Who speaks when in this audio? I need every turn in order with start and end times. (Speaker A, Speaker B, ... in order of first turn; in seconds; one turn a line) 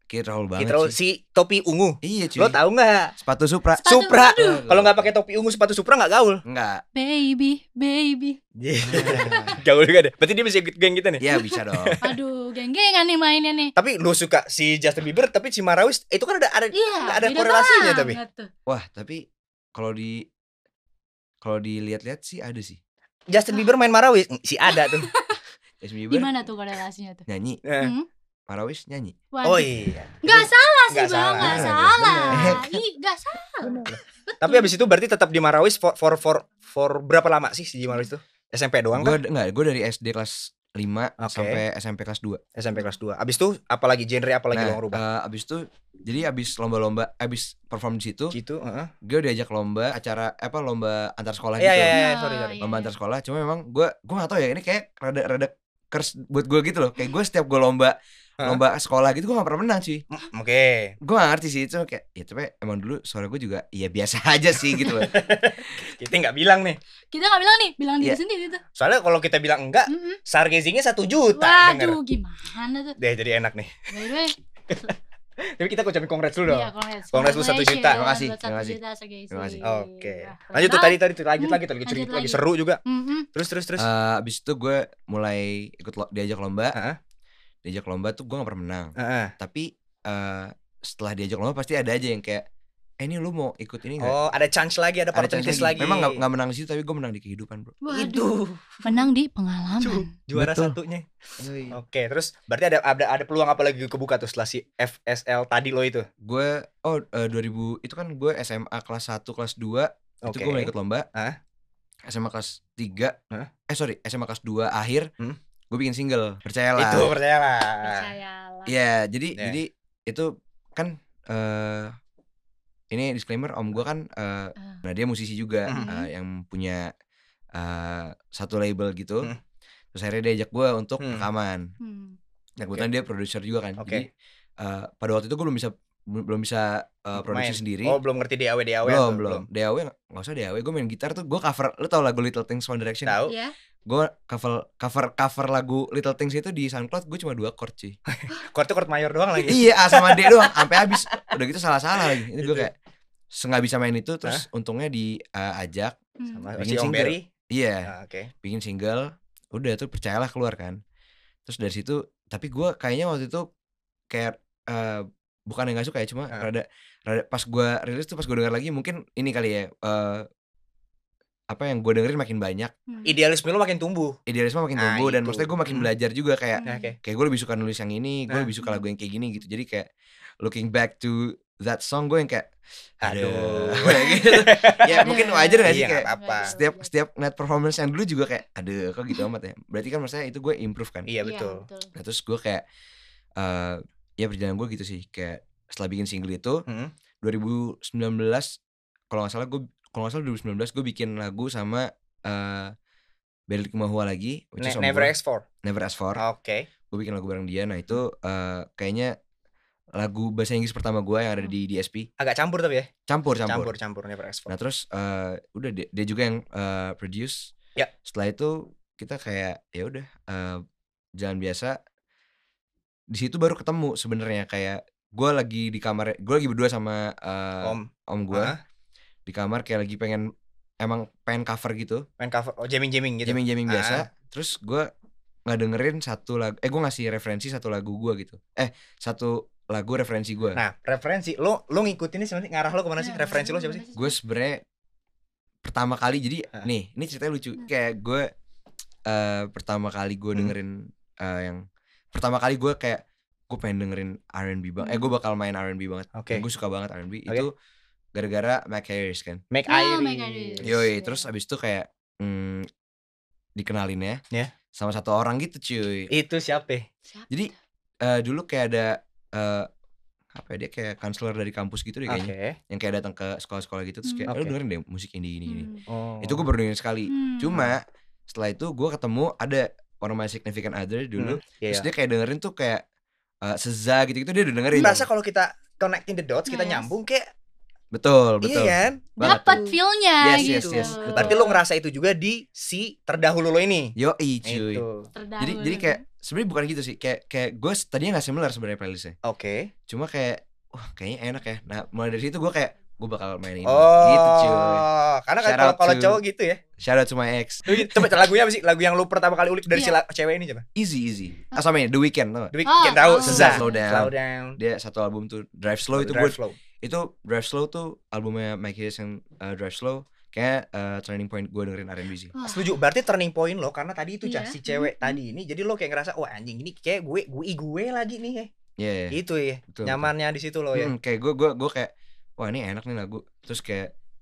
Speaker A: 0.1-1.0
Speaker B: 0.6-3.1
Speaker A: 2.0-2.6
Speaker A: 3.2-5.1
Speaker C: 3.8-4.7
Speaker B: 3.9-6.4
Speaker A: 6.5-6.8
Speaker C: 7.0-8.4
Speaker B: 8.6-12.0
Speaker A: 8.8-9.6
Speaker C: 8.9-9.5
Speaker A: 11.2-12.0
Speaker C: 12.0-13.7
Speaker B: 13.8-18.2
Speaker C: 16.7-18.5
Speaker A: 18.7-20.3
Speaker A: 21.4-22.8
Speaker B: 23.3-25.1
Speaker C: 24.7-25.4
Speaker A: 25.8-26.3
Speaker C: 26.1-27.3
Speaker A: 27.3-27.6
Speaker B: 27.6-27.9
Speaker C: 27.8-28.1
Speaker A: 28.5-29.2
Speaker C: 29.3-29.7
Speaker B: 29.4-32.7
Speaker C: 30.2-34.7
Speaker A: 31.4-32.7
Speaker B: 33.6-39.2
Speaker A: 38.9-42.4
Speaker B: 41.2-41.6
Speaker B: 42.6-45.0
Speaker A: 44.5-48.4
Speaker B: 48.3-48.9
Speaker A: 49.0-52.0
Speaker B: 51.6-52.6
Speaker C: 51.9-52.9
Speaker A: 52.6-60.0
Speaker B: 60.1-61.0
Speaker A: 61.0-65.2
Speaker B: 64.9-66.8
Speaker C: 67.1-68.6
Speaker B: 68.8-72.0
Speaker C: 69.9-70.2
Speaker C: 71.4-73.0
Speaker B: 73.0-74.9
Speaker C: 73.9-74.3
Speaker B: 75.5-78.0
Speaker C: 76.5-83.3
Speaker A: 77.9-78.8
Speaker A: 79.3-79.6
Speaker B: 79.6-82.8
Speaker B: 83.3-83.9
Speaker A: 83.8-86.8
Speaker A: 87.6-92.5
Speaker B: 89.0-89.3
Speaker A: 93.0-94.2
Speaker B: 94.0-96.2
Speaker A: 95.2-97.8
Speaker C: 97.8-98.3
Speaker B: 97.9-99.1
Speaker C: 98.8-100.1
Speaker B: 99.8-101.1
Speaker A: 100.3-100.8
Speaker A: 101.4-101.8
Speaker B: 101.7-106.1
Speaker A: 106.2-111.1
Speaker B: 110.2-111.4
Speaker A: 112.1-113.2
Speaker A: 113.7-115.1
Speaker A: 115.7-117.1
Speaker B: 116.8-118.1
Speaker C: 117.8-118.8
Speaker A: 118.7-122.0
Speaker A: 122.9-126.9
Speaker B: 125.7-125.9
Speaker C: 125.8-126.1
Speaker A: 127.5-129.3
Speaker A: 129.9-131.7
Speaker B: 131.0-131.3
Speaker C: 131.8-132.2
Speaker B: 132.6-132.9
Speaker A: 132.6-138.0
Speaker B: 133.8-134.1
Speaker B: 137.2-139.5
Speaker A: 138.8-143.2
Speaker B: 143.1-143.3
Speaker C: 143.3-143.5
Speaker A: 143.9-148.0
Speaker B: 148.1-151.2
Speaker A: 149.5-152.7
Speaker B: 152.1-152.7
Speaker A: 153.3-156.0
Speaker C: 156.2-156.5
Speaker B: 156.3-157.2
Speaker A: 156.6-157.9
Speaker B: 157.8-158.3
Speaker A: 158.4-160.8
Speaker A: 161.5-163.5
Speaker A: 164.1-170.3
Speaker A: 171.5-172.7
Speaker C: 172.9-173.2
Speaker B: 173.1-174.2
Speaker A: 174.3-179.9
Speaker B: 174.8-175.9
Speaker C: 176.6-176.9
Speaker B: 176.6-177.0
Speaker A: 180.4-191.1
Speaker B: 183.0-186.6
Speaker C: 183.9-184.2
Speaker C: 185.0-186.9
Speaker B: 191.1-191.6
Speaker C: 191.2-191.9
Speaker A: 191.9-192.7
Speaker A: 193.4-196.6
Speaker B: 196.7-196.9
Speaker A: 197.2-198.6
Speaker A: 199.1-202.7
Speaker A: 203.5-206.2
Speaker B: 204.6-205.5
Speaker B: 206.2-206.7
Speaker A: 206.9-209.2
Speaker A: 210.0-212.1
Speaker B: 212.2-212.9
Speaker A: 213.1-213.7
Speaker B: 213.5-214.5
Speaker A: 214.5-217.5
Speaker A: 218.1-220.6
Speaker A: 221.2-221.8
Speaker A: 223.1-228.6
Speaker B: 227.6-228.6
Speaker A: 229.3-230.3
Speaker A: 230.8-232.1
Speaker B: 232.2-234.1
Speaker A: 233.3-234.9
Speaker A: 235.5-240.6
Speaker B: 240.6-243.8
Speaker C: 243.0-244.2
Speaker A: 243.9-244.6
Speaker A: 245.7-248.3
Speaker A: 249.1-257.5
Speaker C: 254.8-255.1
Speaker B: 256.1-256.4
Speaker A: 258.1-259.4
Speaker B: 259.5-260.8
Speaker C: 259.7-261.3
Speaker A: 260.6-262.7
Speaker A: 263.6-264.2
Speaker A: 264.7-266.1
Speaker B: 266.1-266.9
Speaker C: 267.1-267.4
Speaker A: 268.0-269.7
Speaker A: 270.3-275.7
Speaker B: 272.1-272.6
Speaker B: 274.3-274.6
Speaker C: 275.5-275.8
Speaker B: 275.9-276.5
Speaker A: 276.2-282.8
Speaker C: 277.1-277.6
Speaker B: 281.2-281.9
Speaker A: 283.4-285.1
Speaker B: 284.7-287.3
Speaker C: 286.5-286.9
Speaker A: 287.9-289.6
Speaker B: 288.4-289.8
Speaker C: 289.2-291.6
Speaker A: 290.2-291.4
Speaker B: 290.4-293.9
Speaker A: 294.0-294.8
Speaker B: 294.4-295.1
Speaker C: 295.1-296.0
Speaker A: 295.4-299.1
Speaker B: 299.2-299.7
Speaker A: 299.9-304.9
Speaker B: 303.6-306.6
Speaker A: 305.4-306.2
Speaker A: 306.8-308.1
Speaker B: 307.7-310.6
Speaker A: 310.8-312.5
Speaker B: 312.5-314.6
Speaker C: 312.7-313.9
Speaker A: 313.2-322.3
Speaker B: 315.9-316.6
Speaker C: 322.4-322.8
Speaker B: 322.4-328.5
Speaker C: 324.2-325.2
Speaker A: 328.8-329.2
Speaker B: 329.1-330.9
Speaker A: 329.7-330.1
Speaker A: 330.7-333.9